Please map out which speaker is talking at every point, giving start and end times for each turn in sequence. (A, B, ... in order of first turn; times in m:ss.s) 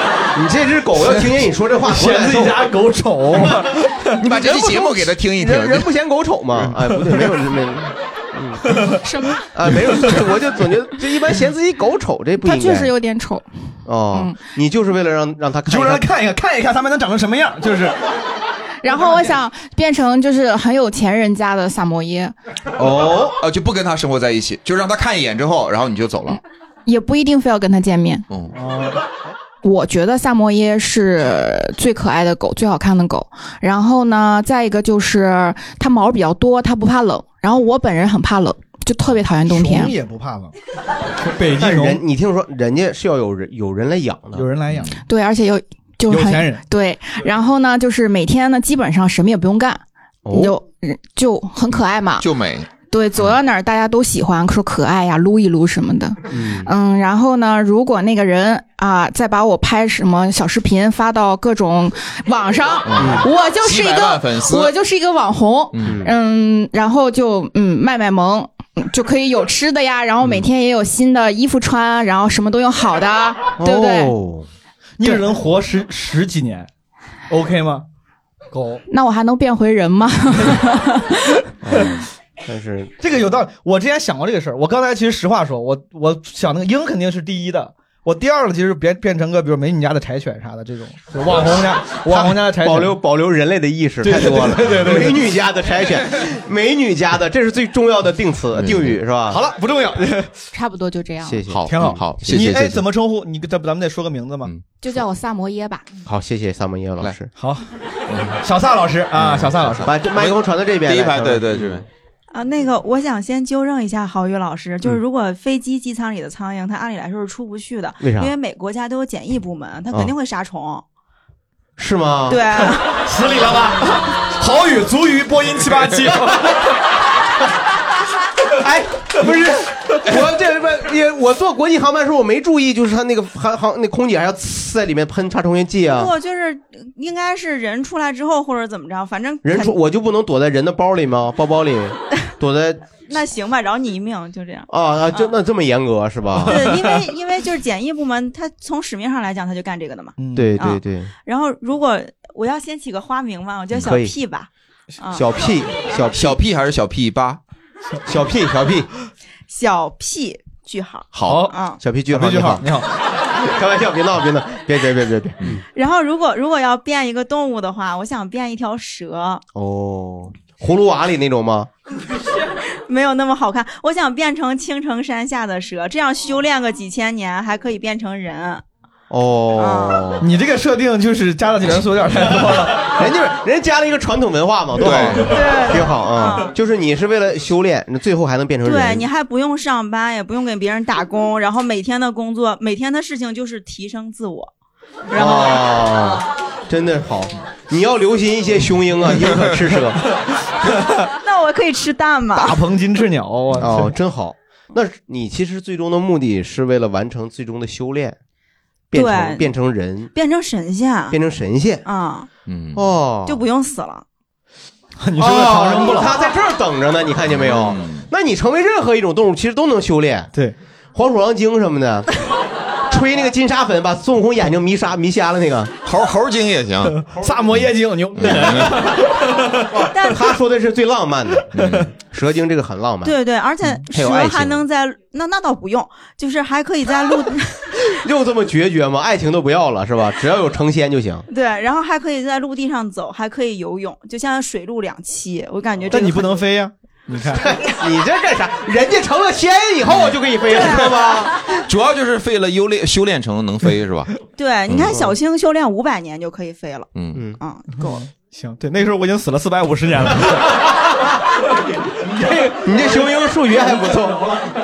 0:00.3-0:02.7 A
0:01.9-0:04.2 B
0:04.2-0:05.9 C
0:04.2-0:08.7 A
0:08.7-0:09.0 B
0:09.5-0:12.9 A
0:12.4-0:13.4 D
0:13.9-0:16.1 A
0:14.1-0:14.4 D
0:15.7-0:18.0 B
0:18.8-0:22.3 D
0:22.8-0:26.4 C
0:26.9-0:28.2 D
0:28.5-0:29.0 B
0:29.6-0:40.0 D
0:39.5-0:40.5 B
0:41.3-0:42.0 B
0:41.6-0:44.5 A
0:44.4-0:45.0 B
0:45.1-0:52.3 D
0:46.1-0:46.6 B
0:50.3-0:50.6 A
0:52.2-0:52.7 C
0:52.9-1:14.1 D
0:56.3-0:56.7 A
1:02.9-1:04.7 C
1:03.0-1:03.2 A
1:05.7-1:06.0 C
1:05.8-1:06.1 A
1:13.6-1:14.5 A
1:15.0-1:16.7 B
1:17.3-1:17.8 B
1:18.5-1:18.8 B
1:18.9-1:21.0 D
1:21.6-1:23.0 A
1:23.0-1:33.0 B
1:32.1-1:39.4 A
1:34.0-1:35.2 B
1:38.6-1:39.0 C
1:39.3-1:40.4 B
1:40.5-1:41.4 D
1:41.2-1:42.7 A
1:41.5-1:42.7 C
1:41.7-1:44.5 B
1:44.8-1:45.9 D
1:46.1-1:47.3 A
1:47.4-1:47.6 B
1:48.1-1:48.4 C
1:48.4-1:49.9 B
1:49.2-1:51.9 C
1:49.8-1:51.8 A
1:52.3-2:00.8 E
1:58.0-1:58.3 A
2:01.8-2:02.4 A
2:02.3-2:03.0 E
2:02.9-2:06.6 B
2:08.6-2:16.1 A
2:15.9-2:19.8 E
2:19.4-2:22.9 A
2:23.0-2:25.3 E
2:24.7-2:26.7 A
2:26.5-2:26.8 B
2:26.5-2:35.3 E
2:30.2-2:30.6 B
2:30.4-2:31.1 A
2:33.8-2:34.2 A
2:35.1-2:36.4 A
2:36.1-2:37.4 C
2:38.1-2:38.9 A
2:39.5-2:41.8 E
2:41.1-2:41.4 C
2:41.2-2:41.5 B
2:41.8-2:42.6 A
2:42.1-2:42.9 B
2:43.3-2:45.6 A
2:45.8-2:49.4 E
2:49.5-2:51.7 A
2:52.4-2:58.6 E
2:59.1-3:00.2 A
2:59.6-3:00.1 E
3:00.2-3:02.9 B
3:03.0-3:09.1 A
3:04.8-3:05.2 B
3:04.8-3:05.3 C
3:05.3-3:06.5 E
3:08.6-3:14.5 E
3:15.1-3:15.7 E
3:15.1-3:20.0 A
3:21.2-3:22.6 E
3:22.3-3:23.9 B
3:23.6-3:28.2 A
3:28.9-3:30.1 A
3:28.9-3:29.5 E
3:30.1-3:31.2 E
3:31.1-3:31.8 A
3:31.8-3:32.3 E
3:32.5-3:32.8 C
3:32.7-3:33.4 A
3:33.3-3:34.0 E
3:35.0-3:36.2 B
3:35.2-3:40.3 A
3:37.3-3:38.0 C
3:40.9-3:42.1 A
3:42.9-3:45.7 A
3:45.8-3:47.0 C
3:47.0-3:49.7 B
3:48.2-3:48.9 C
3:49.8-3:53.2 A
3:49.9-3:50.2 E
3:51.5-3:51.8 B
3:51.5-3:51.9 C
3:53.0-3:57.7 E
3:53.9-3:54.6 A
3:58.0-4:01.3 A
4:01.3-4:06.4 E
4:05.9-4:07.5 B
4:07.4-4:11.3 A
4:09.9-4:10.2 C
4:10.5-4:11.3 E
4:11.6-4:14.1 C
4:14.3-4:16.9 E
4:14.7-4:15.0 C
4:17.0-4:17.2 C
4:17.4-4:18.0 E
4:17.8-4:20.5 B
4:22.1-4:22.6 B
4:22.6-4:24.3 A